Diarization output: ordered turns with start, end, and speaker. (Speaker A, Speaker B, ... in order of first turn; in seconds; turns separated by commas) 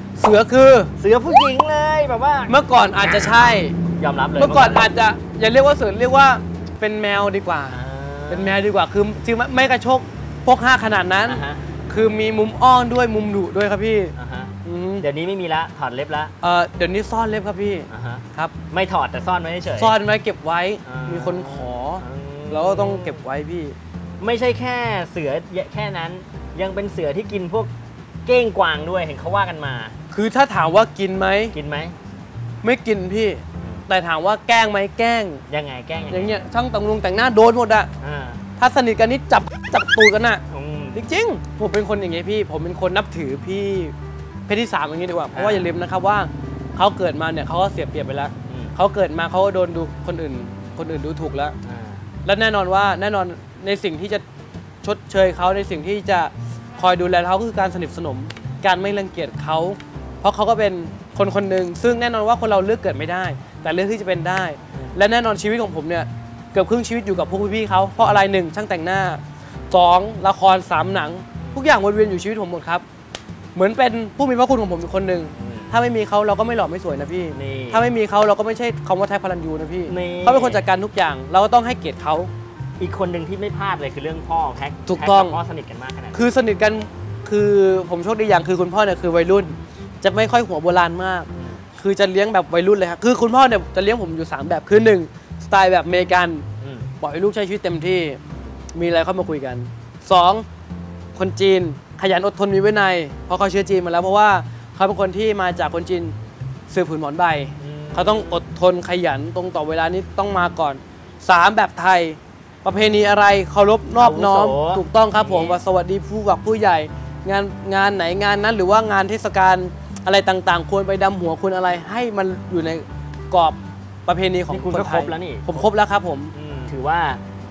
Speaker A: 0.2-0.9, Speaker B: 1.0-4.9, Speaker A: 2.5-3.8, Speaker A: 4.4-14.1, Speaker B: 7.7-8.6, Speaker B: 11.3-11.6, Speaker B: 14.2-16.3, Speaker A: 14.7-15.1, Speaker A: 16.4-18.5, Speaker B: 17.9-20.0, Speaker A: 19.8-23.8, Speaker B: 20.9-23.2, Speaker B: 24.2-27.7, Speaker B: 28.2-30.0, Speaker A: 30.1-31.6, Speaker B: 31.5-31.9, Speaker A: 32.6-35.4, Speaker B: 35.5-36.3, Speaker A: 36.1-37.9, Speaker B: 38.0-38.4, Speaker A: 38.6-40.4, Speaker B: 40.5-41.0, Speaker A: 40.9-43.9, Speaker A: 44.5-51.5, Speaker B: 45.3-45.7, Speaker B: 48.5-48.7, Speaker B: 51.6-52.1, Speaker A: 52.2-54.2, Speaker A: 54.8-72.8, Speaker A: 73.5-82.3, Speaker B: 75.4-75.7, Speaker B: 77.3-77.9, Speaker B: 79.9-80.7, Speaker B: 82.8-86.2, Speaker A: 84.9-85.4, Speaker A: 86.1-96.5, Speaker B: 96.6-96.9, Speaker A: 97.0-98.2, Speaker A: 98.8-100.5, Speaker A: 101.2-106.1, Speaker A: 106.7-126.3, Speaker B: 107.6-108.4, Speaker B: 114.0-115.6, Speaker B: 124.5-125.7, Speaker B: 126.3-127.2